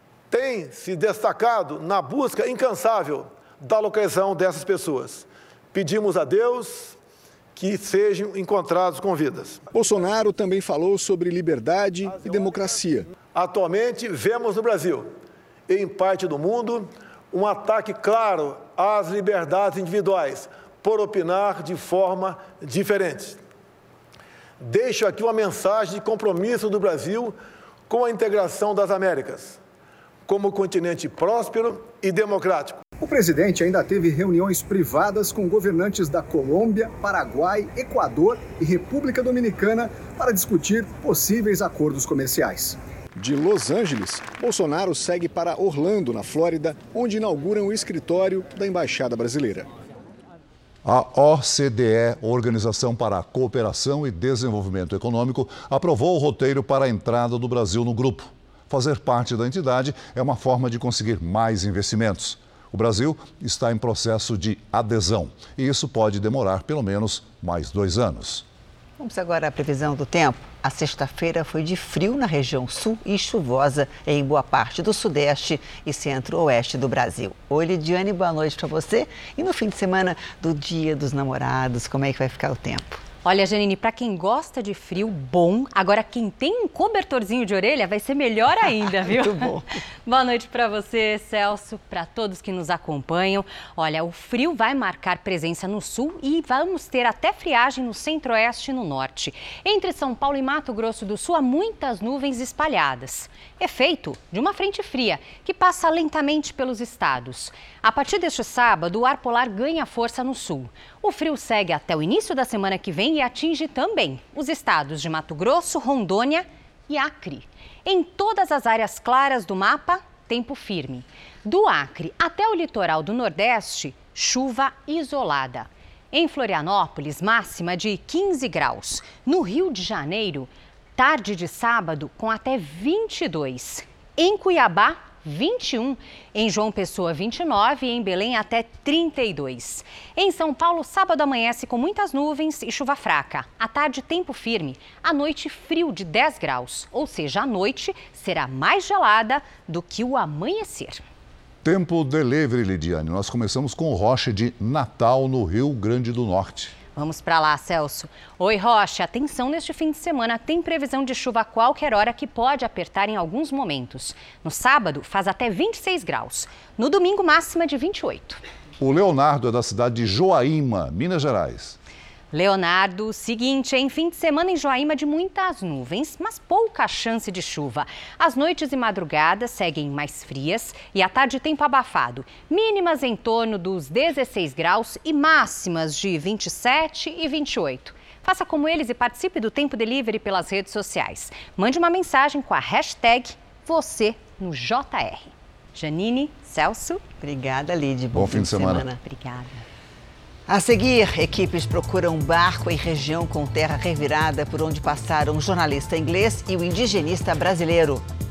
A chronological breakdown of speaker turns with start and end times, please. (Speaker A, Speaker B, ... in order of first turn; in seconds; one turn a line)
Speaker A: 0.3-7.0
Speaker A: 7.6-9.6
Speaker B: 9.7-13.1
Speaker A: 13.3-15.1
Speaker A: 15.7-23.4
Speaker A: 24.6-27.4
Speaker A: 27.9-29.6
Speaker A: 30.3-32.8
Speaker B: 33.0-49.7
Speaker C: 50.9-68.5
Speaker D: 69.0-83.0
Speaker E: 83.2-151.0
Speaker D: 89.0-89.6
Speaker C: 151.6-156.8
Speaker E: 156.9-168.4
Speaker C: 168.8-171.8
Speaker E: 172.3-197.0
Speaker D: 197.2-199.0
Speaker C: 198.1-198.9
Speaker E: 199.0-199.6
Speaker D: 200.5-208.0